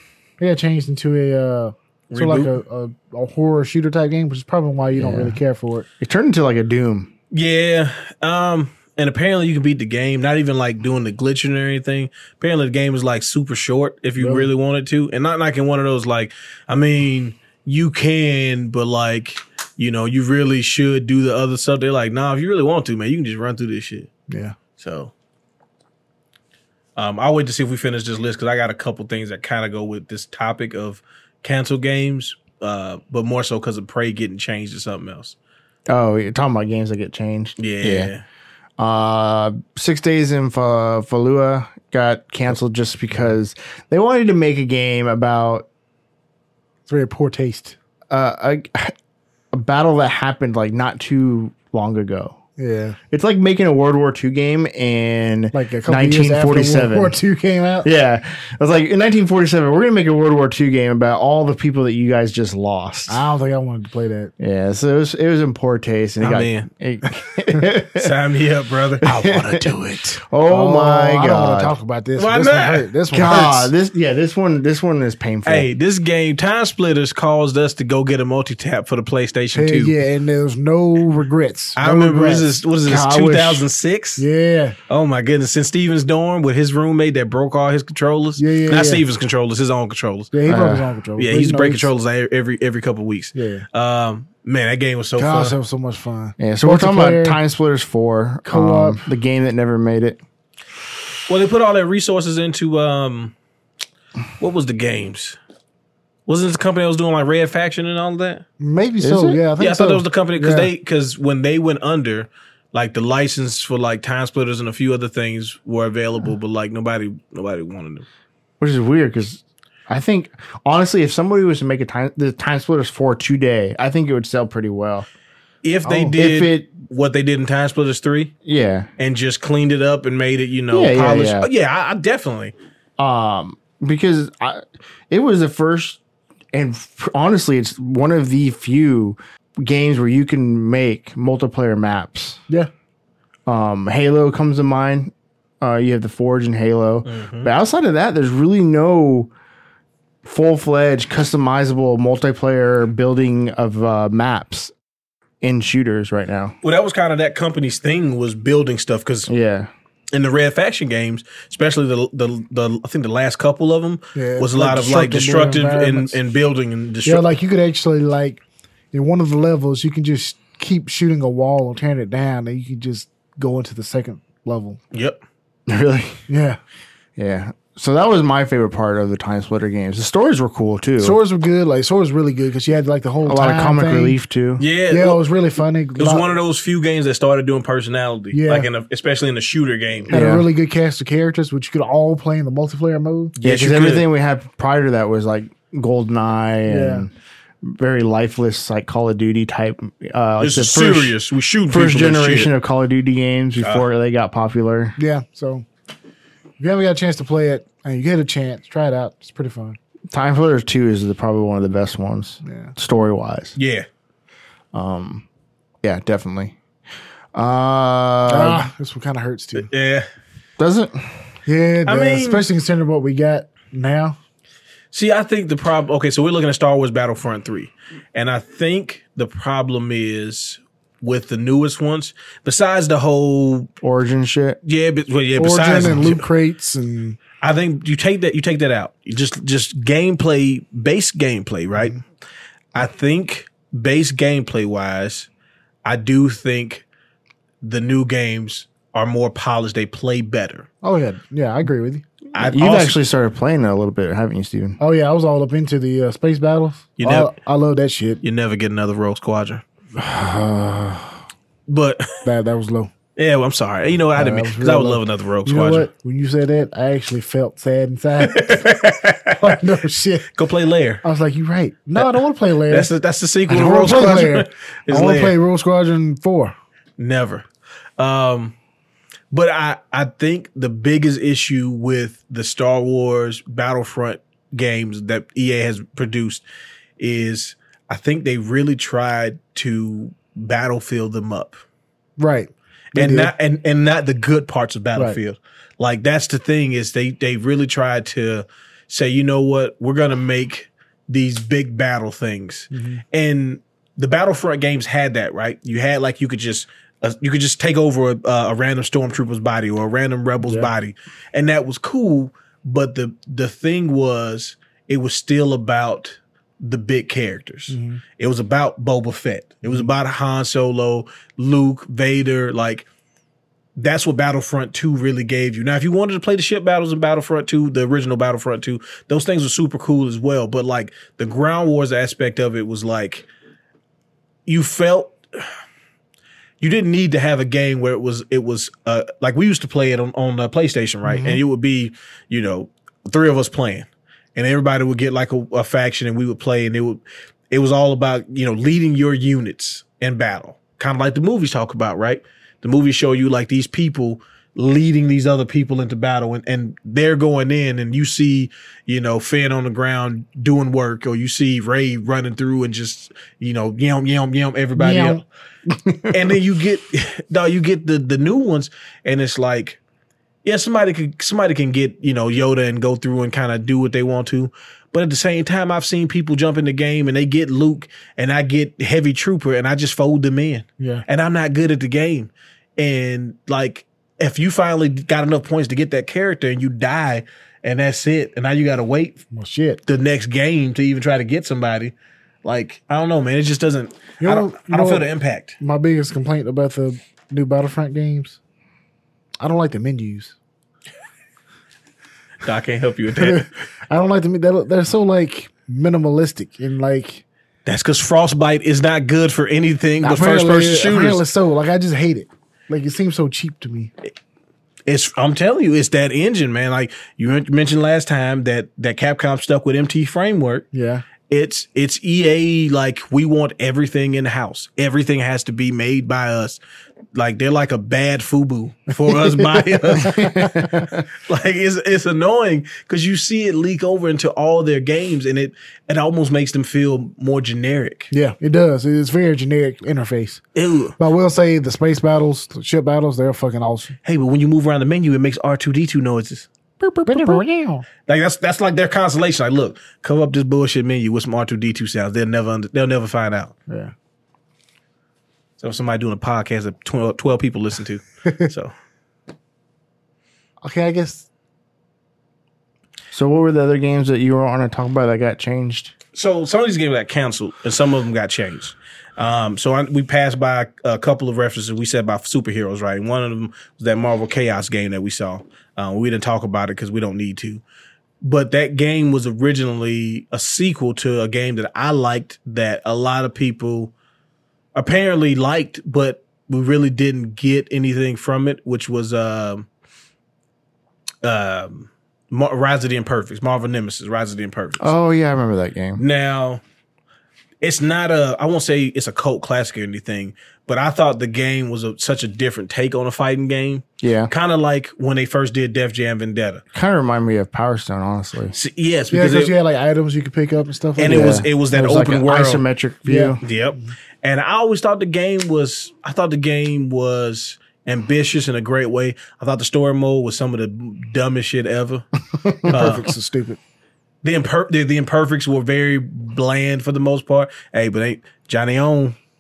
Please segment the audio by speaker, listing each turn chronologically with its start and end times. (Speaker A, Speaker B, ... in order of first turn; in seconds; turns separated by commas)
Speaker A: 0.4-5.8, Speaker B: 2.1-2.5, Speaker C: 4.9-5.4, Speaker C: 6.0-7.1, Speaker B: 7.3-24.1, Speaker A: 14.2-14.5, Speaker A: 24.3-24.6, Speaker B: 24.8-25.1, Speaker B: 26.9-35.4, Speaker C: 35.9-38.1, Speaker B: 37.6-38.2, Speaker C: 38.8-45.7, Speaker A: 46.9-47.8, Speaker C: 48.1-48.9, Speaker C: 49.5-52.4, Speaker A: 52.6-53.0, Speaker C: 53.1-57.1, Speaker A: 55.5-57.9, Speaker C: 57.8-63.2, Speaker A: 63.1-64.3, Speaker C: 64.4-68.1, Speaker B: 66.2-66.7, Speaker B: 68.0-69.6, Speaker C: 69.0-69.7, Speaker A: 69.4-73.7, Speaker C: 70.2-71.7, Speaker B: 72.2-72.9, Speaker C: 73.1-75.7, Speaker B: 75.4-80.0, Speaker A: 79.5-82.5, Speaker B: 81.8-84.2, Speaker C: 82.8-83.7, Speaker A: 84.2-84.8, Speaker B: 84.9-90.3, Speaker A: 88.4-89.0, Speaker A: 90.3-91.9, Speaker C: 90.5-90.9, Speaker B: 91.2-95.5, Speaker A: 93.3-93.7, Speaker A: 95.2-97.4, Speaker C: 96.4-100.2, Speaker A: 98.5-99.0, Speaker B: 101.3-103.3, Speaker B: 104.4-105.4, Speaker B: 106.3-108.4, Speaker A: 108.6-110.7, Speaker C: 109.0-109.4, Speaker B: 109.6-118.0, Speaker C: 118.6-125.1, Speaker B: 125.6-128.3, Speaker C: 125.8-126.7, Speaker C: 128.4-128.9, Speaker B: 129.0-132.5, Speaker C: 130.7-131.5, Speaker C: 133.0-136.0, Speaker C: 136.5-142.4, Speaker C: 143.5-149.3, Speaker B: 147.1-147.5, Speaker C: 150.2-154.7, Speaker C: 155.4-156.6, Speaker B: 156.6-159.3, Speaker C: 159.3-159.7, Speaker B: 160.1-167.3, Speaker A: 164.1-166.2, Speaker A: 167.1-168.4, Speaker A: 168.9-174.8, Speaker B: 174.9-175.2, Speaker C: 175.7-176.2, Speaker A: 176.3-176.6, Speaker C: 177.2-181.2, Speaker A: 181.0-184.2, Speaker C: 183.2-184.6, Speaker B: 184.6-185.2, Speaker A: 184.9-186.3, Speaker B: 186.0-190.1, Speaker A: 188.3-188.7, Speaker A: 190.1-193.3, Speaker C: 190.1-190.4, Speaker B: 193.4-194.1, Speaker C: 193.4-197.1, Speaker A: 196.7-197.1, Speaker C: 197.6-204.9, Speaker B: 200.4-202.5, Speaker B: 203.6-203.8, Speaker A: 205.0-205.7, Speaker A: 206.6-209.8, Speaker C: 210.1-213.6, Speaker A: 212.4-212.7, Speaker B: 213.6-213.8, Speaker C: 214.7-215.3, Speaker C: 215.8-216.6, Speaker C: 217.3-218.7, Speaker A: 218.3-219.7, Speaker B: 219.6-220.1, Speaker C: 220.6-221.1, Speaker A: 221.4-224.2, Speaker B: 221.8-222.4, Speaker B: 224.9-233.7, Speaker C: 233.8-234.6, Speaker B: 234.6-236.3, Speaker A: 235.4-237.2, Speaker B: 237.4-242.0, Speaker B: 242.7-245.3, Speaker B: 245.8-246.8, Speaker B: 247.6-250.7, Speaker A: 250.8-252.1, Speaker B: 252.3-252.9, Speaker C: 252.3-254.8, Speaker A: 254.8-258.2, Speaker B: 257.0-257.3, Speaker B: 258.2-259.6, Speaker A: 260.0-261.2, Speaker B: 261.7-262.2, Speaker A: 262.2-262.9, Speaker B: 263.1-265.9, Speaker A: 264.1-270.3, Speaker B: 268.2-269.6, Speaker B: 270.3-271.0, Speaker A: 271.0-272.9, Speaker B: 272.0-275.3, Speaker A: 273.5-276.6, Speaker B: 277.0-277.4, Speaker B: 278.0-278.6, Speaker B: 279.3-286.4, Speaker B: 287.0-291.6, Speaker A: 292.2-293.3, Speaker B: 292.9-322.9, Speaker A: 302.7-303.0, Speaker A: 310.4-310.7, Speaker A: 317.7-318.0, Speaker A: 319.6-319.9, Speaker B: 323.8-333.3, Speaker B: 334.4-335.5, Speaker B: 336.6-365.2, Speaker A: 341.0-341.4, Speaker A: 364.8-365.2, Speaker A: 365.9-366.1, Speaker B: 366.1-369.8, Speaker B: 370.4-389.2, Speaker A: 380.8-381.1, Speaker A: 389.3-389.8, Speaker B: 389.9-395.6, Speaker A: 394.2-395.1, Speaker A: 395.6-398.4, Speaker A: 399.4-400.3, Speaker B: 402.4-403.5, Speaker A: 403.2-407.2, Speaker B: 407.6-411.2, Speaker A: 410.0-413.9, Speaker B: 414.9-420.7, Speaker A: 420.7-421.1, Speaker B: 421.3-426.6, Speaker B: 427.1-438.1, Speaker A: 429.1-431.0, Speaker A: 438.1-440.4, Speaker B: 440.6-440.9, Speaker A: 441.0-443.9, Speaker B: 444.0-447.4, Speaker A: 447.1-447.9, Speaker B: 448.1-453.5, Speaker A: 453.7-453.9, Speaker B: 455.6-458.7, Speaker A: 460.6-461.3, Speaker C: 463.1-465.9, Speaker B: 466.1-477.6, Speaker B: 478.2-483.9, Speaker B: 484.7-489.7, Speaker B: 491.2-494.9, Speaker C: 494.8-496.0, Speaker B: 496.0-496.6, Speaker B: 497.6-506.6, Speaker C: 504.0-504.3, Speaker C: 506.7-508.6, Speaker B: 508.5-509.5, Speaker A: 509.1-511.5, Speaker B: 511.0-512.6, Speaker C: 511.1-513.4, Speaker A: 513.0-513.4, Speaker B: 513.4-522.0, Speaker B: 522.7-523.1, Speaker A: 522.7-523.6, Speaker B: 524.2-529.1